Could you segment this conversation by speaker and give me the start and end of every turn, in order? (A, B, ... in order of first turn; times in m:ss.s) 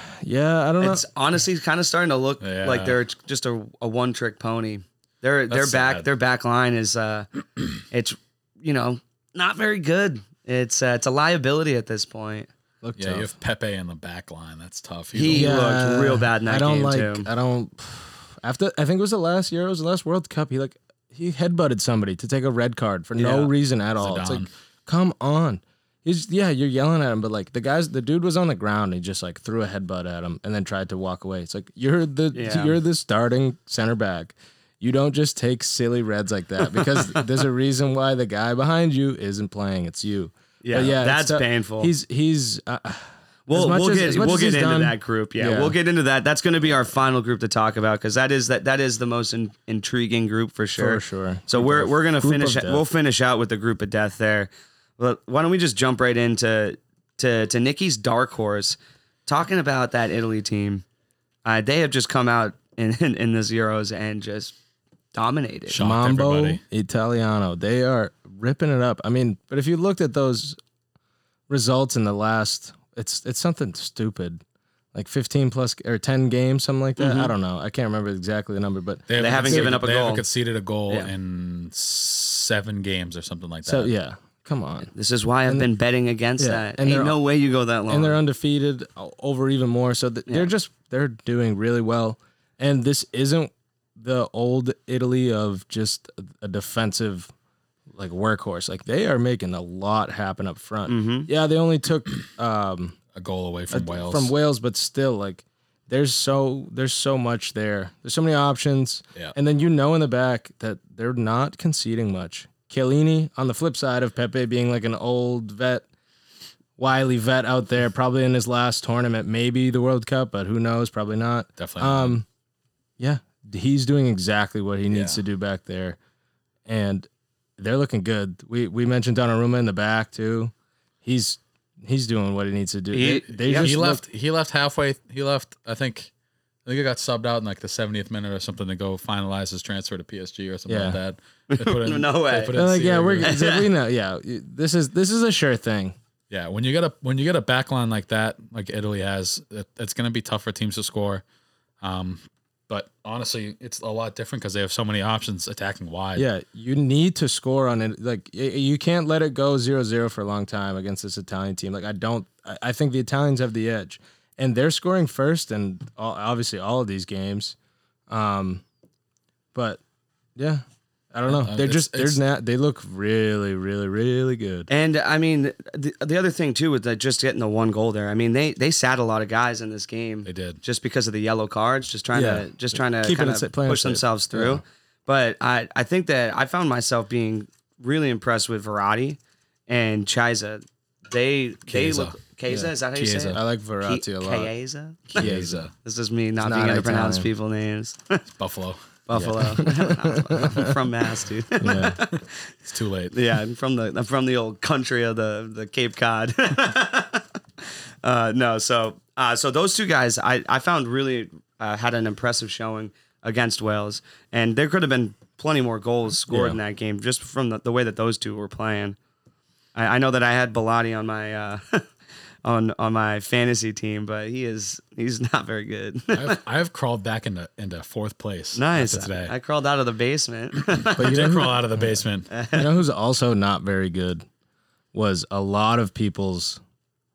0:00.1-0:01.0 A
0:00.8-0:07.3 B
0:02.4-0:03.0 C
0:05.5-0:06.1 C
0:07.8-0:12.5 B
0:12.8-0:13.3 A
0:13.0-0:15.6 C
0:15.1-0:17.3 B
0:15.3-0:45.8 A
0:23.2-0:23.5 B
0:24.0-0:24.5 C
0:32.3-0:32.8 B
0:40.6-0:41.9 B
0:43.5-1:00.8 B
0:50.8-0:52.8 A
1:01.4-1:04.5 B
1:05.1-1:05.8 B
1:05.7-1:06.6 C
1:05.8-1:10.6 A
1:11.5-1:14.4 A
1:14.9-1:19.8 A
1:17.0-1:17.3 B
1:19.1-1:23.9 C
1:19.2-1:20.2 B
1:23.7-1:24.9 A
1:25.0-1:28.2 B
1:26.4-1:27.2 A
1:27.9-1:37.3 A
1:37.9-1:43.0 A
1:40.9-1:41.3 B
1:43.1-1:44.3 C
1:43.7-1:55.8 A
1:56.8-2:02.3 A
2:01.6-2:02.2 C
2:03.0-2:06.0 A
2:04.9-2:05.2 C
2:06.7-2:10.5 A
2:11.0-2:14.0 A
2:12.9-2:13.7 B
2:13.4-2:16.1 C
2:16.7-2:23.4 C
2:20.7-2:21.0 A
2:21.5-2:22.6 B
2:22.5-2:26.0 A
2:23.2-2:23.7 B
2:26.3-2:31.2 C
2:31.8-2:36.3 C
2:36.2-2:47.6 A
2:48.1-2:48.6 A
2:49.5-2:49.8 A
2:50.4-2:54.7 A
2:51.3-2:52.2 C
2:54.7-3:18.2 B
3:00.2-3:00.6 C
3:02.1-3:04.6 A
3:11.7-3:12.2 C
3:12.9-3:13.4 C
3:13.3-3:14.5 A
3:15.1-3:15.7 C
3:15.2-3:15.7 A
3:16.4-3:17.3 A
3:18.4-3:18.8 C
3:19.1-3:22.4 B
3:19.1-3:20.7 A
3:21.6-3:22.0 A
3:22.0-3:23.2 C
3:23.1-3:27.3 B
3:28.0-3:39.0 B
3:36.3-3:36.6 C
3:39.8-3:41.9 B
3:42.4-3:46.4 B
3:46.1-3:49.3 C
3:48.6-3:51.3 B
3:50.6-3:52.3 C
3:51.0-3:52.0 A
3:52.3-3:52.7 B
3:52.5-3:54.2 A
3:54.9-3:56.6 A